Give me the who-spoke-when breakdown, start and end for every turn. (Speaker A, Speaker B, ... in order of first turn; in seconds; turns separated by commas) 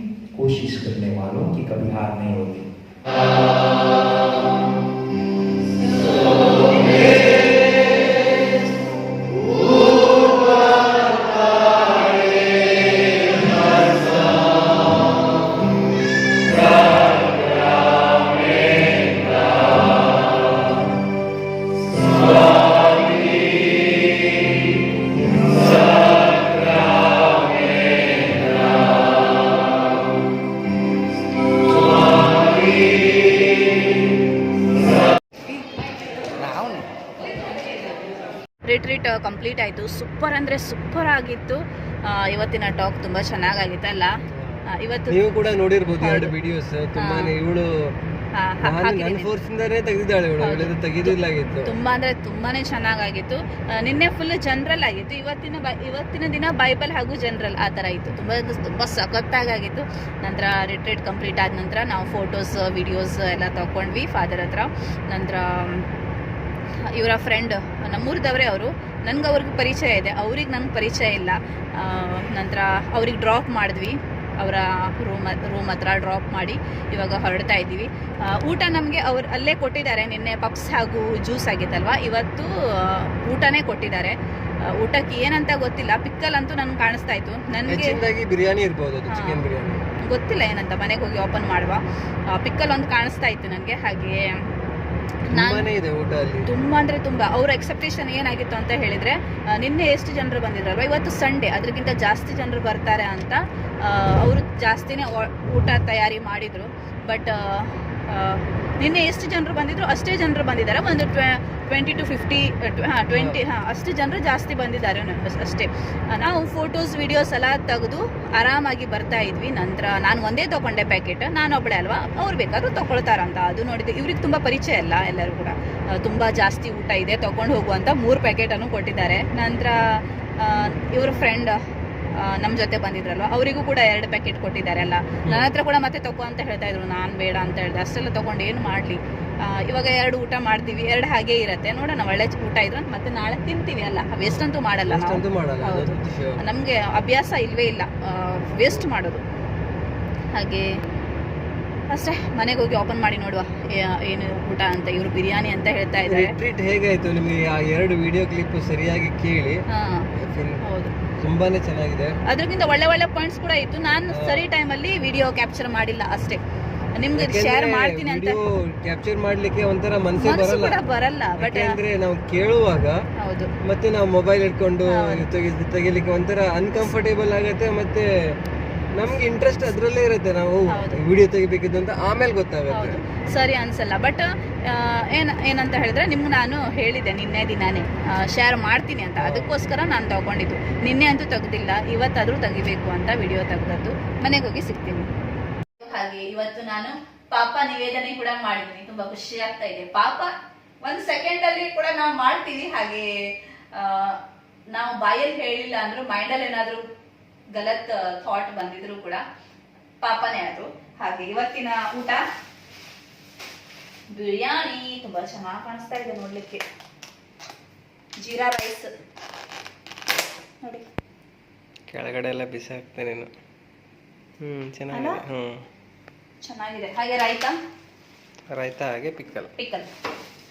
Speaker A: 0.3-2.7, Speaker A: 36.4-36.8, Speaker B: 37.3-38.0, Speaker B: 38.6-44.1, Speaker C: 44.4-47.9, Speaker B: 44.7-45.2, Speaker B: 46.0-46.3, Speaker B: 47.0-47.3, Speaker B: 48.3-49.3, Speaker C: 48.6-51.7, Speaker B: 50.4-65.9, Speaker B: 66.8-84.2, Speaker B: 84.7-88.0, Speaker C: 87.7-89.8, Speaker B: 89.1-89.4, Speaker B: 90.0-91.8, Speaker B: 92.3-94.4, Speaker B: 95.3-95.7, Speaker C: 95.3-96.5, Speaker B: 96.5-131.6, Speaker B: 132.2-149.2, Speaker C: 135.3-135.5, Speaker C: 144.2-146.4, Speaker B: 150.3-150.7, Speaker B: 151.9-156.3, Speaker C: 156.1-159.6, Speaker B: 159.7-160.1, Speaker C: 160.2-160.6, Speaker B: 160.6-160.9, Speaker C: 161.2-162.2, Speaker B: 162.3-166.4, Speaker C: 164.1-164.5, Speaker B: 167.0-168.4, Speaker C: 167.2-170.8, Speaker B: 170.2-171.8, Speaker C: 171.4-173.0, Speaker B: 173.2-173.5, Speaker C: 173.6-178.1, Speaker B: 174.9-175.2, Speaker C: 179.0-183.0, Speaker B: 180.7-181.0, Speaker B: 182.7-195.1, Speaker C: 189.2-189.5, Speaker B: 195.8-200.3, Speaker B: 200.8-203.1, Speaker B: 203.7-204.2, Speaker B: 204.7-206.8, Speaker B: 207.5-209.2, Speaker B: 210.0-212.2, Speaker B: 214.1-216.6, Speaker B: 218.2-218.9, Speaker C: 221.9-223.3, Speaker C: 224.4-225.6, Speaker B: 224.9-225.2, Speaker B: 226.4-227.6, Speaker C: 228.5-229.5, Speaker B: 229.6-229.9